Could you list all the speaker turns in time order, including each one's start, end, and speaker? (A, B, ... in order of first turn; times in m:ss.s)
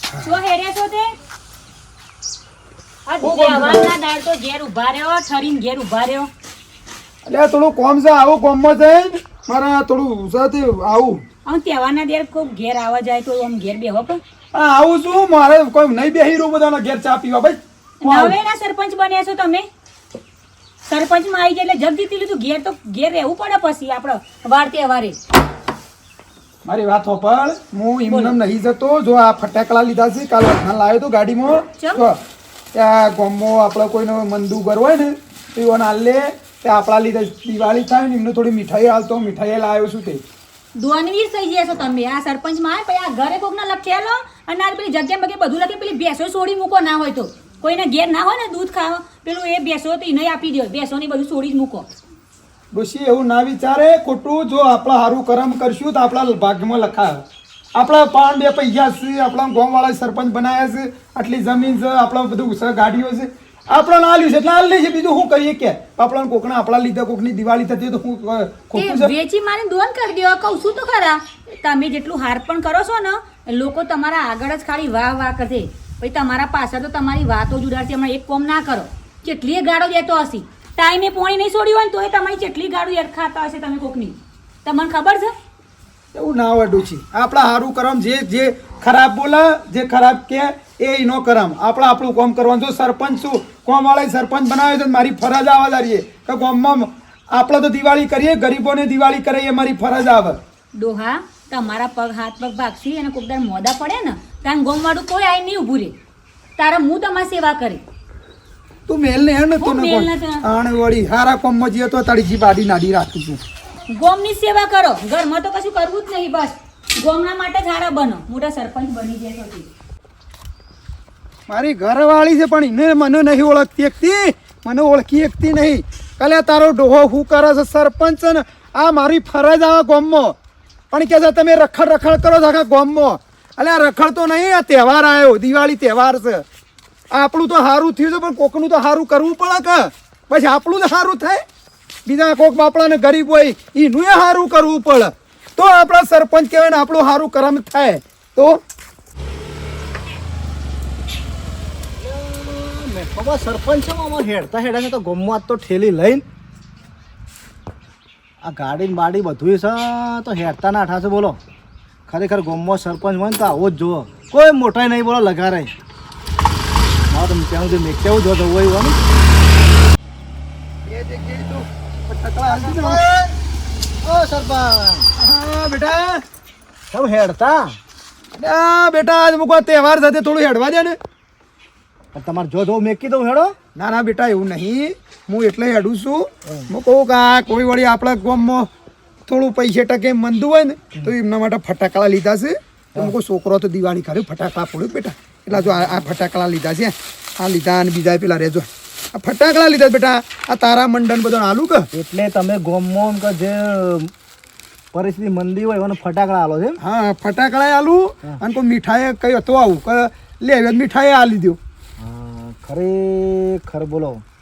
0:00.2-0:01.1 A
0:03.1-0:06.3 A
0:03.2-0:03.9 B
0:07.2-0:11.2 B
0:11.4-0:14.2 A
0:14.5-0:18.4 B
0:18.0-0:19.6 A
0:20.8-0:25.2 A
0:26.6-0:32.2 B
0:28.1-0:28.3 A
0:32.7-0:40.2 B
0:40.8-0:51.9 A
0:52.7-0:57.2 B
0:57.7-1:09.1 B
1:08.7-1:25.3 A
1:26.1-1:40.4 B
1:40.7-1:45.9 A
1:46.6-1:47.8 A
1:48.9-1:53.4 B
1:49.6-1:50.4 A
1:53.9-1:59.7 A
2:01.5-2:10.4 B
2:10.9-2:16.4 B
2:17.1-2:21.4 B
2:22.0-2:28.6 B
2:32.0-2:36.2 C
2:38.4-2:41.4 C
2:42.1-2:45.7 C
2:47.1-2:49.0 C
2:50.8-2:53.0 B
2:52.5-2:53.3 C
2:54.0-2:55.1 C
2:55.2-2:56.2 B
2:56.9-2:57.8 C
2:58.3-3:01.0 B
3:02.1-3:03.6 C
3:03.7-3:08.7 B
3:06.4-3:06.7 C
3:09.3-3:21.9 B
3:15.5-3:16.1 C
3:21.9-3:24.1 C
3:24.9-3:26.8 C
3:26.8-3:31.6 B
3:32.0-3:34.2 C